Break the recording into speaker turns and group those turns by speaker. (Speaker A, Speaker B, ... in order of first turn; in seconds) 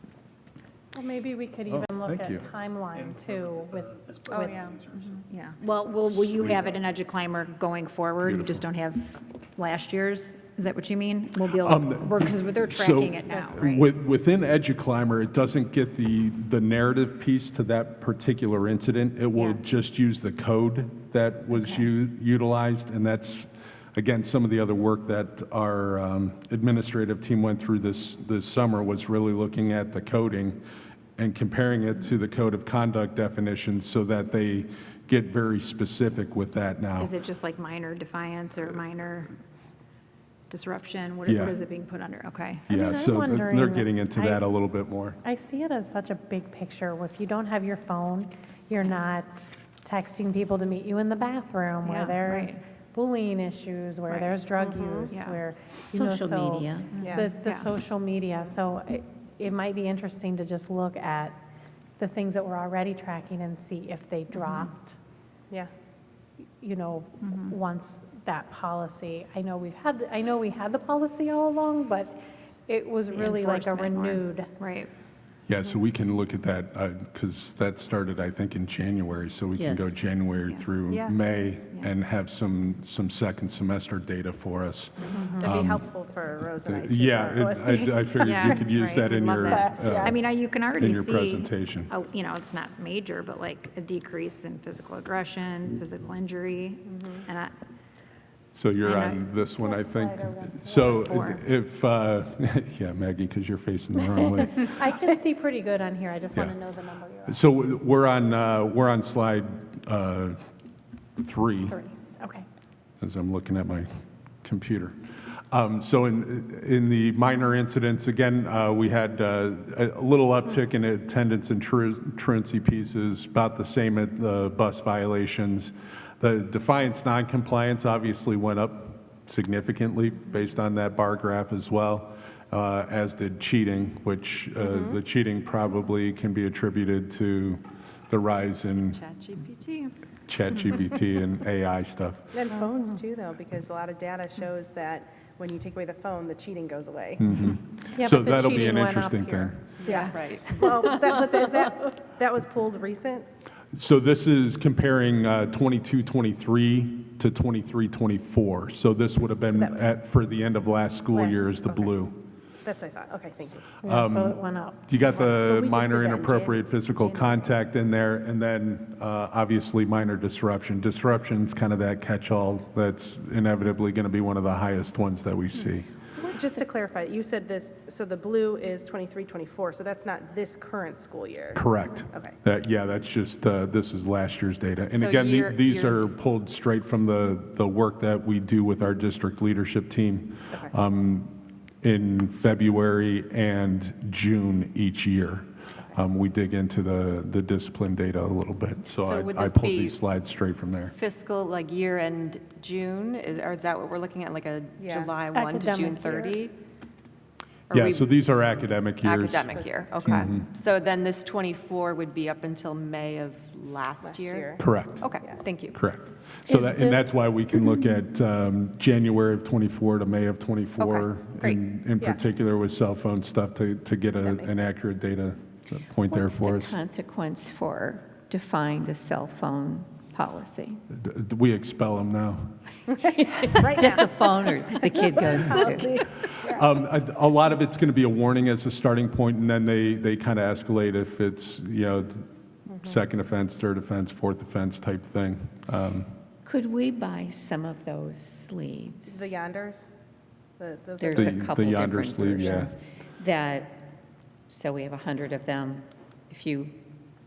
Speaker A: 1.0-1.8, 2.4-3.7, 45.3-56.6, 57.2-61.4, 62.0-64.9, 66.6-72.2, 72.7-74.5, 104.9-107.4, 111.8-112.5, 148.7-149.2, 163.8-164.9, 205.3-206.4, 216.5-217.2
Speaker B: 1.7-2.5, 8.3-8.6, 11.5-30.6, 31.2-37.1, 41.3-41.6, 42.7-45.2, 75.5-85.9, 86.7-91.9, 98.5-104.8, 107.3-110.4, 111.2-111.8, 113.0-113.9, 114.4-115.0, 115.5-139.0, 140.3-142.3, 147.2-149.8, 153.7-162.2, 163.8-175.9, 181.6-200.9, 207.7-209.5, 210.1-210.5, 214.6-215.1, 215.7-226.8, 230.9-232.5, 236.3-242.3, 242.8-246.1, 251.1-252.7
Speaker C: 1.8-2.4, 3.1-4.6, 42.7-44.4, 51.2-52.2, 54.1-55.5, 56.6-57.4, 73.7-74.1, 85.4-88.6, 89.4-90.2, 96.9-97.2, 100.3-100.6, 104.8-105.0, 134.6-135.0, 142.3-147.3, 147.9-153.3, 159.5-160.0, 161.1-162.1, 162.6-163.7, 165.1-167.6, 176.2-182.3, 204.8-205.2, 209.4-210.3, 214.0-214.6, 224.2-224.9, 233.6-234.0, 235.0-236.6, 249.1-249.9, 250.6-251.3
Speaker D: 4.3-4.8, 5.3-13.9, 21.5-21.8, 37.0-39.3, 40.5-42.7, 51.8-52.6, 55.1-55.4, 56.9-57.7, 64.3-64.7, 67.2-67.6, 73.1-74.9, 85.1-85.5, 88.2-97.5, 98.8-99.2, 100.7-101.4
Speaker E: 55.9-56.9, 79.6-79.9, 226.1-230.8, 233.0-236.0, 246.4-249.3, 251.0-253.8, 254.5-256.8
Speaker F: 80.9-81.2, 138.9-139.9, 149.8-151.0, 184.9-186.1, 199.0-200.0, 200.9-206.6, 207.7-215.8, 220.8-221.6